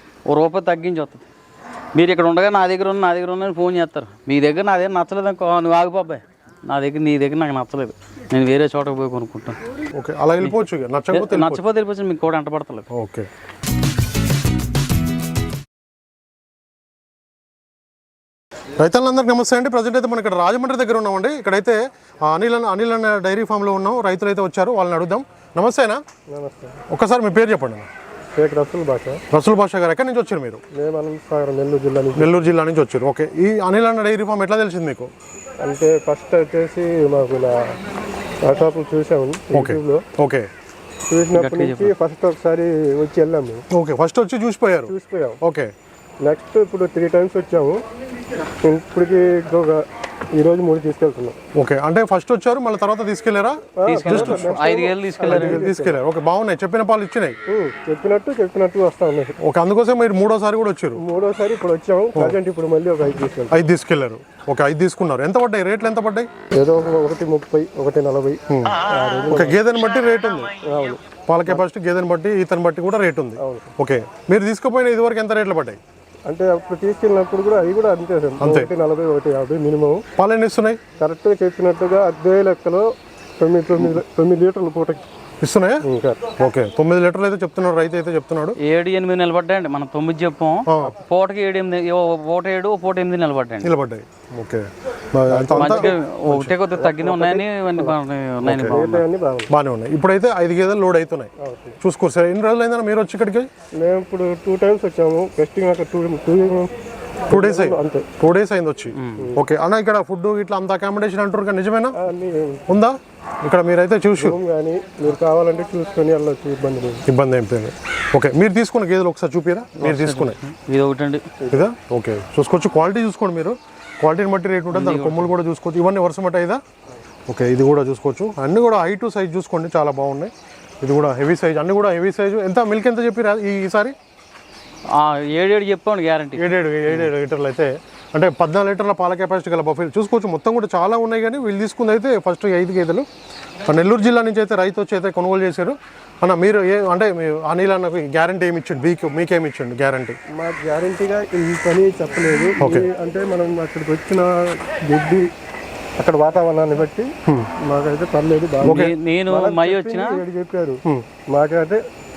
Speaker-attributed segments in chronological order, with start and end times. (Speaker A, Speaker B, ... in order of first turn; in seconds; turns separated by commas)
Speaker A: 0.3-1.3, Speaker A: 1.9-9.6, Speaker B: 9.9-11.6, Speaker A: 11.1-12.9, Speaker B: 12.9-13.3, Speaker B: 18.8-26.0, Speaker C: 26.3-26.8, Speaker B: 26.9-27.9, Speaker C: 28.4-29.2, Speaker B: 29.3-30.6, Speaker C: 30.7-32.5, Speaker B: 32.1-35.1, Speaker C: 35.6-37.8, Speaker C: 38.4-40.0, Speaker B: 39.5-40.5, Speaker C: 41.1-43.6, Speaker A: 41.3-41.9, Speaker B: 43.7-45.7, Speaker C: 44.9-45.4, Speaker C: 46.2-47.8, Speaker C: 48.6-49.8, Speaker C: 50.4-51.4, Speaker B: 51.5-54.6, Speaker C: 53.8-56.0, Speaker A: 53.9-55.7, Speaker B: 55.2-57.4, Speaker C: 57.5-59.4, Speaker B: 59.4-61.0, Speaker C: 61.0-63.6, Speaker B: 63.5-66.3, Speaker C: 66.6-69.6, Speaker B: 68.5-70.5, Speaker C: 70.6-71.6, Speaker B: 71.2-75.8, Speaker C: 73.4-73.7, Speaker C: 76.3-80.0, Speaker B: 78.4-78.7, Speaker B: 80.2-80.8, Speaker C: 81.0-82.8, Speaker C: 83.4-85.0, Speaker B: 85.4-88.6, Speaker C: 85.8-86.2, Speaker A: 88.6-93.7, Speaker B: 90.7-90.9, Speaker B: 93.6-96.5, Speaker C: 95.3-96.0, Speaker A: 95.6-99.0, Speaker C: 96.8-98.0, Speaker B: 98.4-98.8, Speaker C: 98.6-99.5, Speaker B: 99.5-101.3, Speaker C: 101.4-101.8, Speaker B: 101.8-103.5, Speaker C: 103.8-106.7, Speaker C: 107.3-108.2, Speaker B: 107.3-112.0, Speaker A: 109.0-109.3, Speaker C: 112.0-112.7, Speaker B: 112.7-114.4, Speaker C: 114.2-117.0, Speaker B: 117.1-120.4, Speaker A: 119.8-121.2, Speaker B: 121.5-126.6, Speaker A: 124.7-125.3, Speaker B: 127.3-133.9, Speaker A: 134.9-136.4, Speaker B: 136.4-143.1, Speaker B: 143.7-150.2, Speaker C: 150.3-155.3, Speaker B: 152.6-152.9, Speaker C: 156.0-157.1, Speaker C: 157.6-160.8, Speaker A: 158.6-160.2, Speaker B: 158.7-158.9, Speaker C: 161.3-161.8